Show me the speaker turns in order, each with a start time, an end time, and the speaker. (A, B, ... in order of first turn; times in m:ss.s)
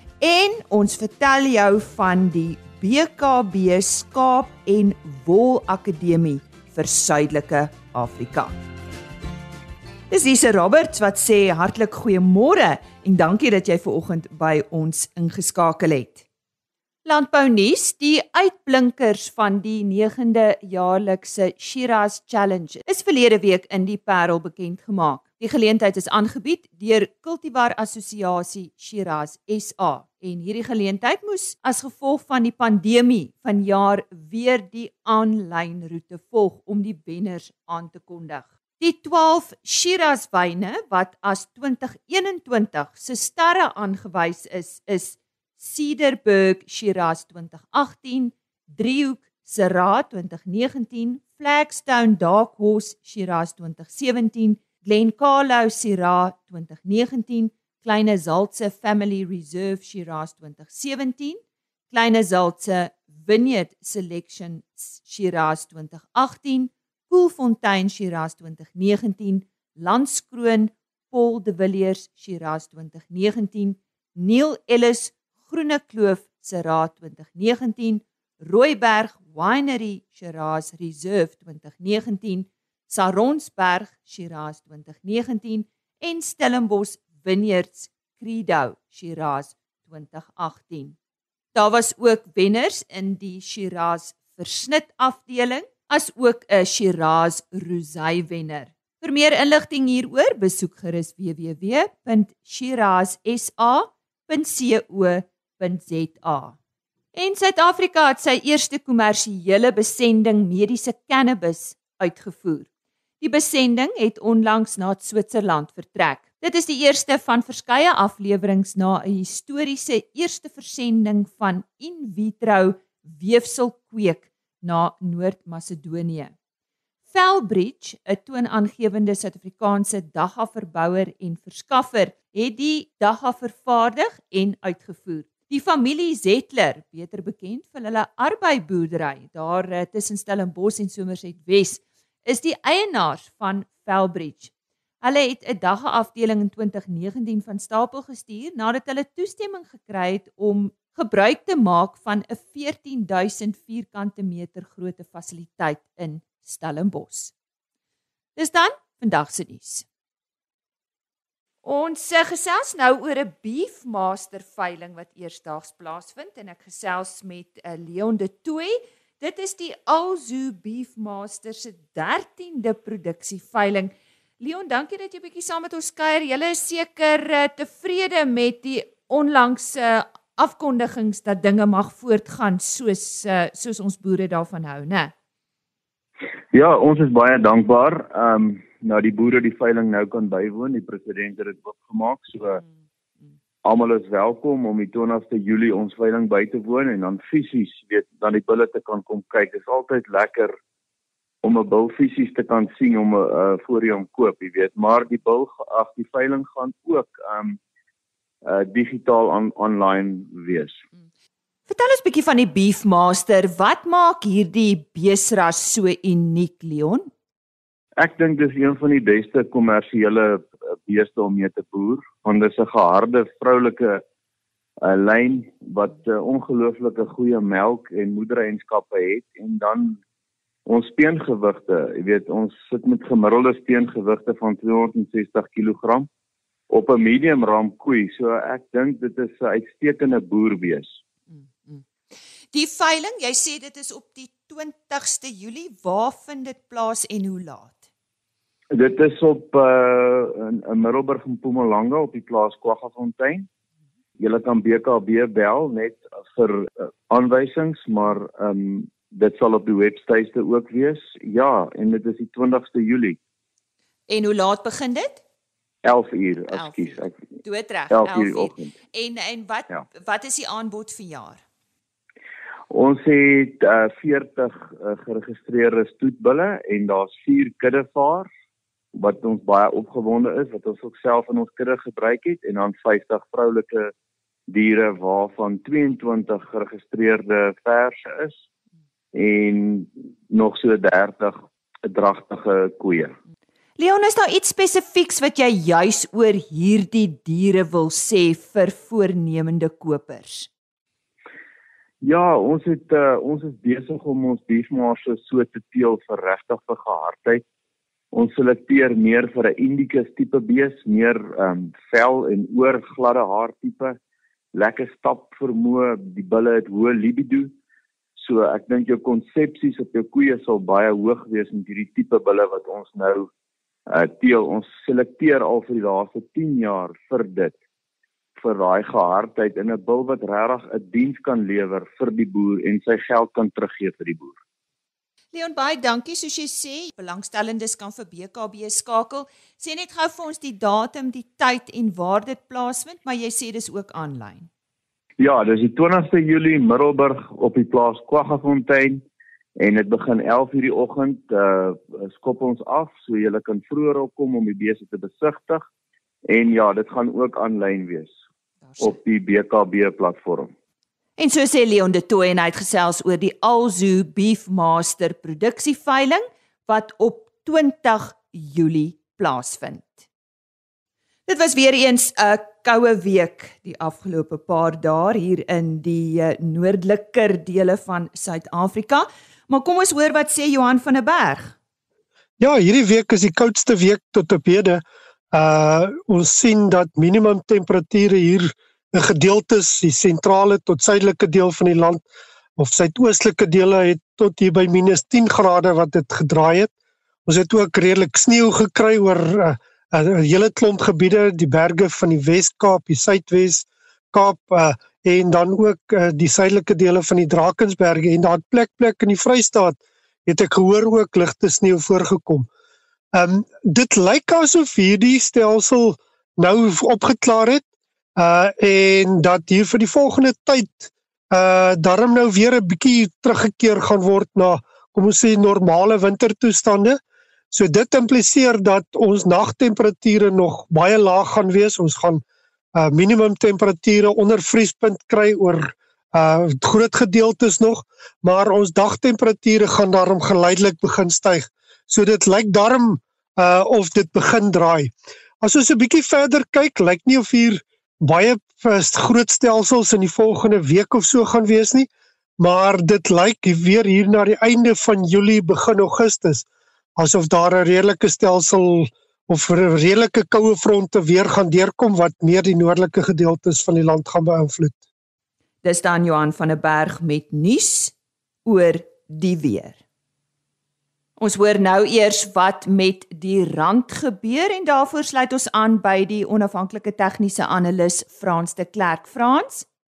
0:00.2-0:08.6 A
0:10.1-0:16.2 A
0:17.0-1:01.4 A
1:01.9-1:31.0 A
1:31.5-1:46.6 A
1:47.1-1:52.7 A
1:53.2-2:06.3 A
2:07.1-2:24.5 A
2:25.0-2:37.3 A
2:38.4-2:39.8 A
2:41.6-3:05.1 A
3:06.5-3:12.6 B
3:13.6-3:20.5 B
3:21.4-3:27.6 B
3:28.4-3:30.8 B
3:31.7-3:37.1 A
3:38.0-3:44.0 B
3:44.8-3:50.0 B
3:50.6-3:56.1 B
3:56.7-4:01.0 B
4:02.5-4:07.8 A
4:08.7-4:13.5 B
4:14.2-4:23.2 B
4:24.1-4:25.2 A
4:25.8-4:27.1 B
4:26.5-4:31.4 A
4:27.9-4:28.7 B
4:32.7-4:38.3 B
4:38.9-4:43.9 B
4:44.5-4:48.4 B
4:49.1-4:51.4 B
4:51.9-4:53.1 B
4:53.8-5:00.5 A
5:02.0-5:07.4 B
5:08.1-5:14.0 B
5:14.5-5:17.5 B
5:18.2-5:23.3 B
5:23.9-5:27.6 B
5:28.4-5:34.4 B
5:35.3-5:44.5 A
5:45.2-5:49.0 B
5:49.6-5:55.6 B
5:56.3-5:58.1 B
5:58.7-5:59.0 A
5:58.8-6:00.5 B
6:01.2-6:10.0 A
6:11.3-6:21.5 A
6:22.4-6:32.0 C
6:32.6-6:36.7 C
6:37.2-6:52.5 C
6:53.1-6:57.6 C
6:58.2-7:07.0 C
7:07.5-7:12.2 C
7:12.7-7:36.4 C
7:37.0-7:44.8 C
7:45.6-7:47.9 A
7:48.4-7:49.8 A
7:51.2-7:59.6 A